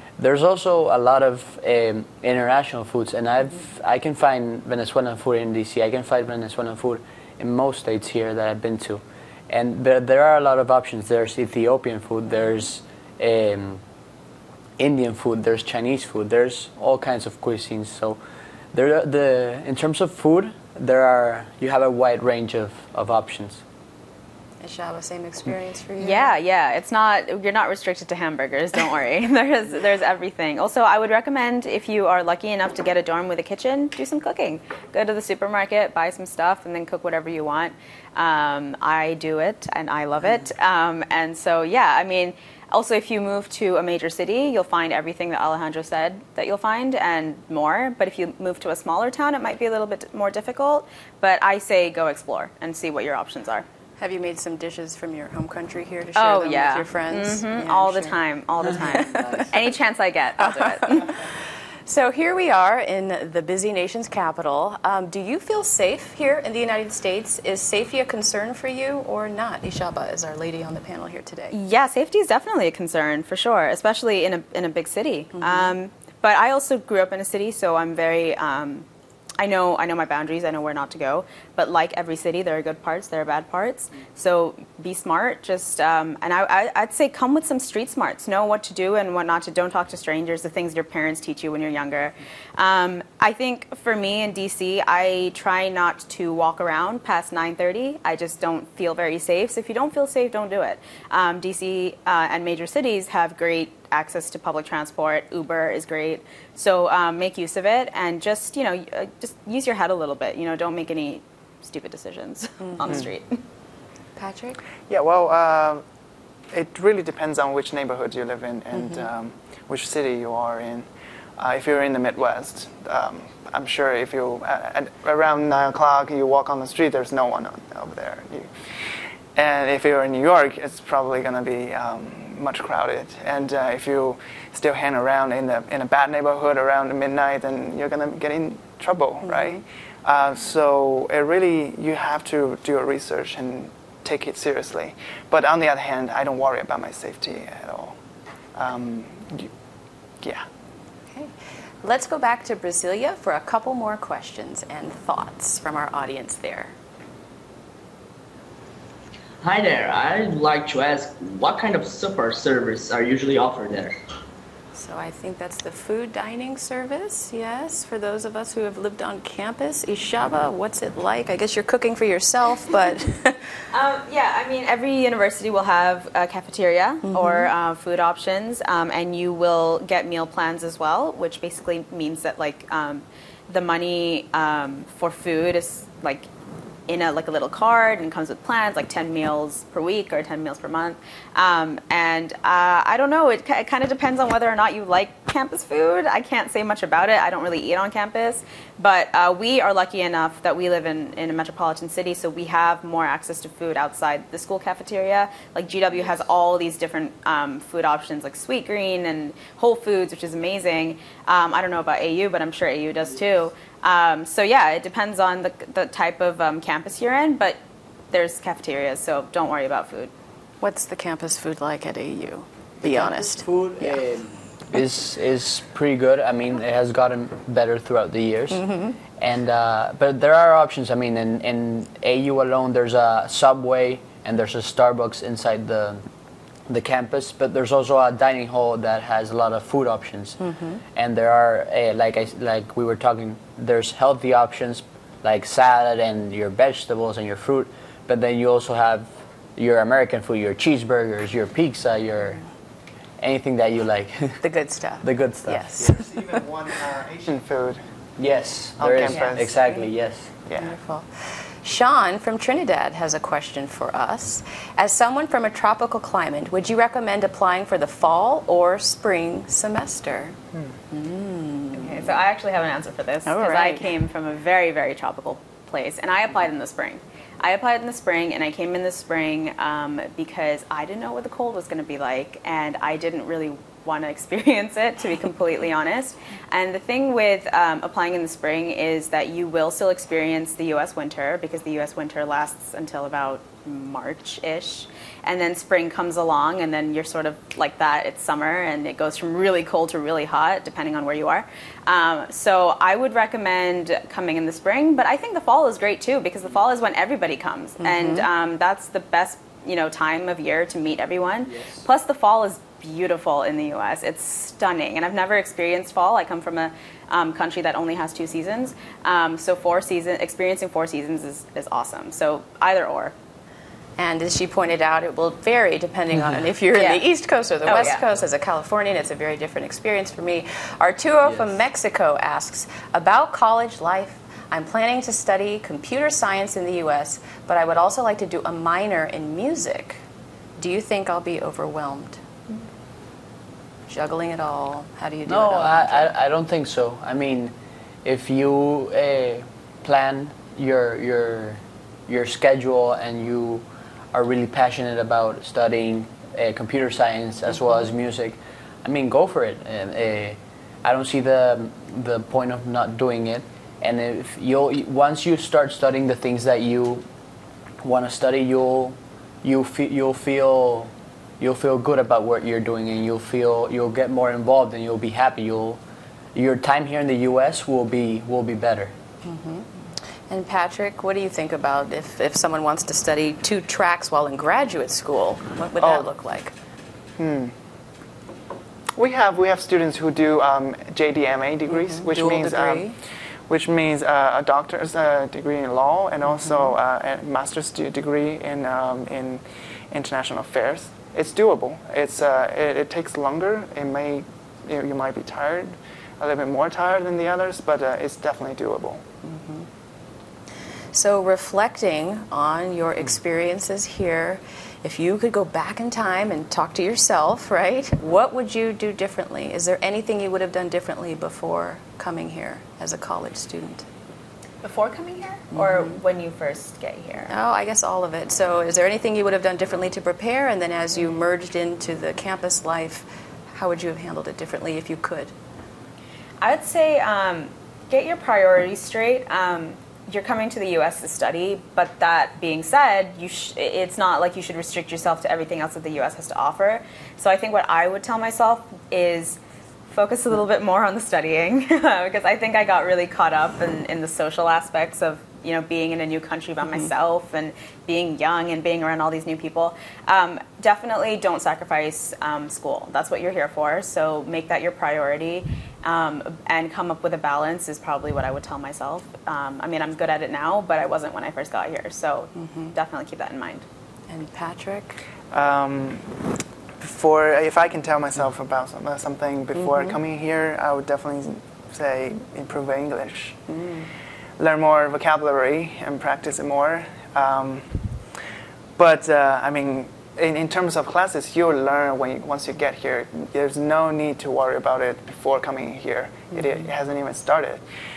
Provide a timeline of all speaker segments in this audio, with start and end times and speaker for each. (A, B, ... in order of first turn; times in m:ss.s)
0:00.2-0:13.8 A
0:14.8-0:18.2 A
0:18.7-0:23.6 A
0:24.6-0:26.3 B
0:26.0-0:53.6 C
0:54.0-0:58.2 B
0:56.2-1:01.1 C
0:58.7-0:59.5 B
1:00.4-1:01.3 B
1:01.9-1:11.5 B
1:11.5-1:18.8 C
1:15.4-1:15.7 B
1:19.4-1:53.4 C
1:52.6-1:53.0 B
1:54.2-1:54.6 B
1:54.9-1:55.8 D
1:56.5-2:08.5 D
2:09.3-2:28.0 D
2:19.3-2:19.6 B
2:28.5-2:29.5 D
2:30.2-2:30.4 D
2:31.8-2:36.7 B
2:39.4-2:44.0 E
2:44.7-2:53.4 B
2:53.7-3:06.2 C
2:57.0-2:57.5 B
3:06.9-3:37.6 C
3:38.1-3:40.1 C
3:40.6-3:44.0 B
3:42.8-3:48.7 A
3:48.5-3:49.0 B
3:49.2-3:56.0 A
3:56.7-4:00.4 A
4:00.4-4:00.8 B
4:00.9-4:12.4 A
4:13.2-4:14.4 A
4:14.4-4:16.0 B
4:15.0-4:15.9 A
4:15.8-4:17.8 D
4:18.2-4:20.3 A
4:18.8-4:19.6 D
4:20.4-4:20.7 D
4:20.6-4:30.4 B
4:30.9-4:32.1 B
4:31.7-5:23.1 C
4:33.2-4:33.9 B
5:07.8-5:08.2 B
5:11.5-5:11.8 A
5:24.0-5:40.0 B
5:26.7-5:27.0 C
5:27.6-5:28.0 C
5:40.6-5:42.2 B
5:43.9-5:46.1 B
5:45.2-6:07.0 A
6:07.8-6:15.8 A
6:16.3-6:18.9 A
6:19.2-6:26.5 B
6:25.8-6:26.1 D
6:27.2-6:27.6 D
6:29.0-6:32.9 D
6:31.7-6:33.0 B
6:33.5-6:49.0 D
6:36.3-6:36.7 B
6:49.2-6:49.7 B
6:50.9-7:03.8 B
7:04.6-7:07.3 C
7:05.5-7:06.0 B
7:07.3-7:15.3 B
7:16.4-7:29.4 C
7:29.9-7:53.6 C
7:52.4-7:52.7 B
7:54.1-7:55.0 B
7:55.3-7:56.3 D
7:56.8-8:03.4 D
7:59.6-8:00.0 B
8:03.5-8:03.9 B
8:04.4-8:07.9 D
8:08.8-8:17.6 D